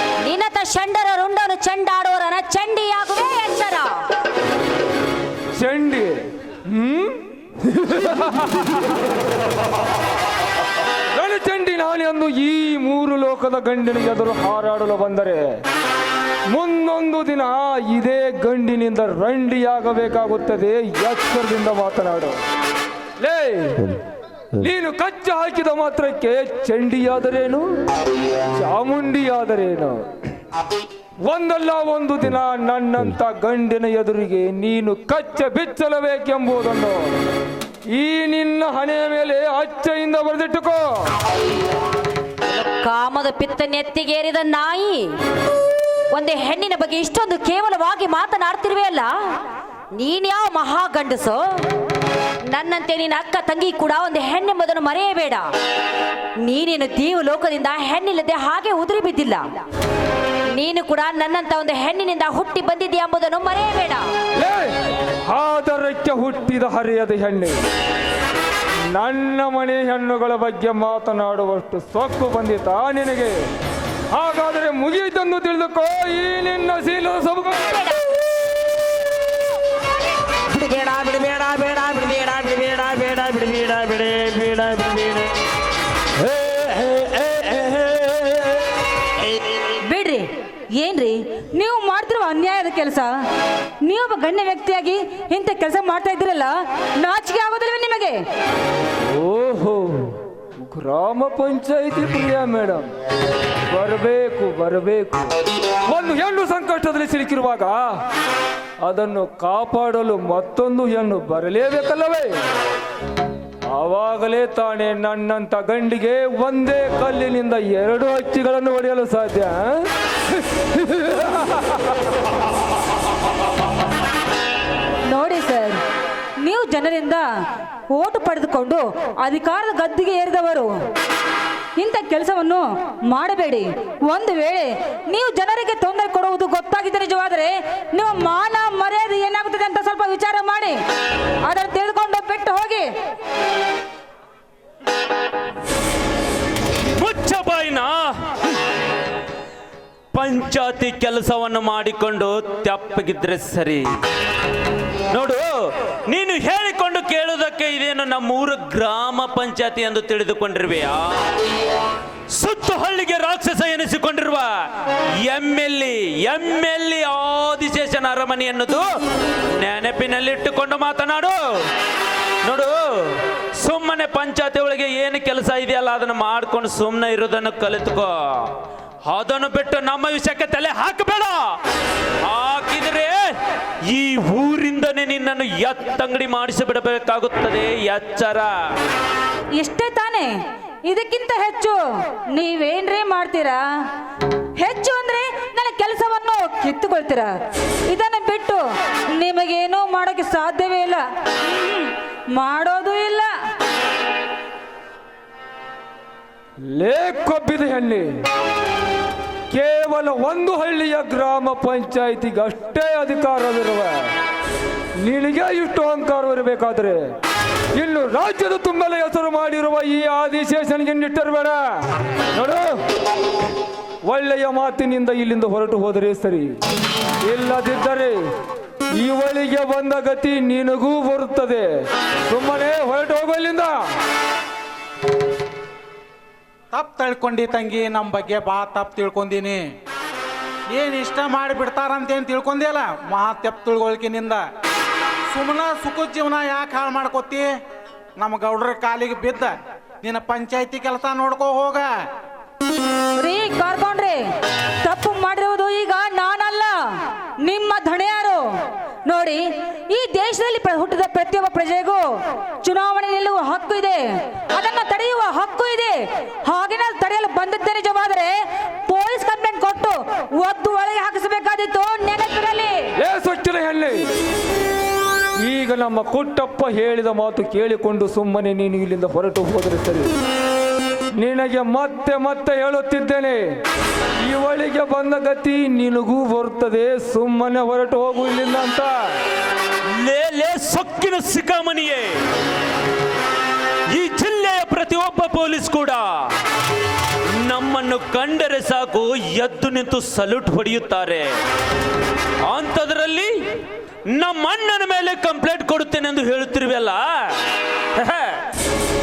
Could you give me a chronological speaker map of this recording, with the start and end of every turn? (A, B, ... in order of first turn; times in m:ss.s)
0:00.2-0:04.0 A
0:05.6-0:08.9 B
0:11.1-0:15.6 B
0:16.5-0:22.4 B
0:23.2-0:24.0 B
0:24.5-0:27.6 B
0:28.5-0:30.1 B
0:31.2-0:37.1 B
0:37.9-0:41.1 B
0:42.5-0:45.1 A
0:46.1-0:49.3 A
0:49.9-0:51.6 A
0:52.5-0:55.5 A
0:56.4-0:59.4 A
1:00.5-1:04.0 A
1:04.4-1:07.6 B
1:08.9-1:13.5 B
1:14.1-1:17.8 B
1:20.5-1:25.3 C
1:26.2-1:28.7 C
1:29.3-1:29.6 C
1:29.8-1:30.2 D
1:30.8-1:33.1 D
1:33.8-1:38.2 D
1:39.0-1:42.9 B
1:43.7-1:45.4 B
1:45.9-1:48.0 B
1:48.8-1:52.4 B
1:53.7-2:02.0 B
2:05.1-2:05.8 D
2:06.4-2:07.2 D
2:07.9-2:10.7 D
2:11.8-2:20.8 D
2:21.4-2:22.9 D
2:27.0-2:28.0 E
2:30.1-2:33.8 E
2:35.1-2:41.2 E
2:42.3-2:44.7 E
2:45.2-2:48.8 E
2:49.5-2:51.4 E
2:52.4-2:58.5 E
2:59.0-3:01.6 E
3:02.2-3:03.2 E
3:03.9-3:08.5 E
3:09.6-3:10.3 D
3:10.9-3:11.8 D
3:12.3-3:13.6 D
3:14.6-3:17.3 D
3:17.9-3:23.3 D
3:26.7-3:28.2 B
3:29.5-3:34.1 B
3:35.0-3:37.1 B
3:37.7-3:42.8 B
3:44.1-3:46.6 B
3:47.2-3:48.2 B
3:48.9-3:51.7 B
3:52.3-3:53.8 B
3:56.7-3:59.6 F
4:00.7-4:04.4 F
4:05.3-4:07.5 F
4:08.2-4:11.9 F
4:13.2-4:14.2 D
4:14.8-4:18.4 D
4:19.0-4:22.0 D
4:22.6-4:28.3 D
4:28.9-4:32.9 D
4:33.0-4:34.1 B
4:35.4-4:40.1 B
4:41.2-4:43.6 B
4:44.2-4:49.2 B
4:49.9-4:52.2 E
4:53.9-4:56.3 E
4:57.3-5:01.3 E
5:02.4-5:03.3 E
5:04.1-5:07.4 E
5:08.0-5:08.4 E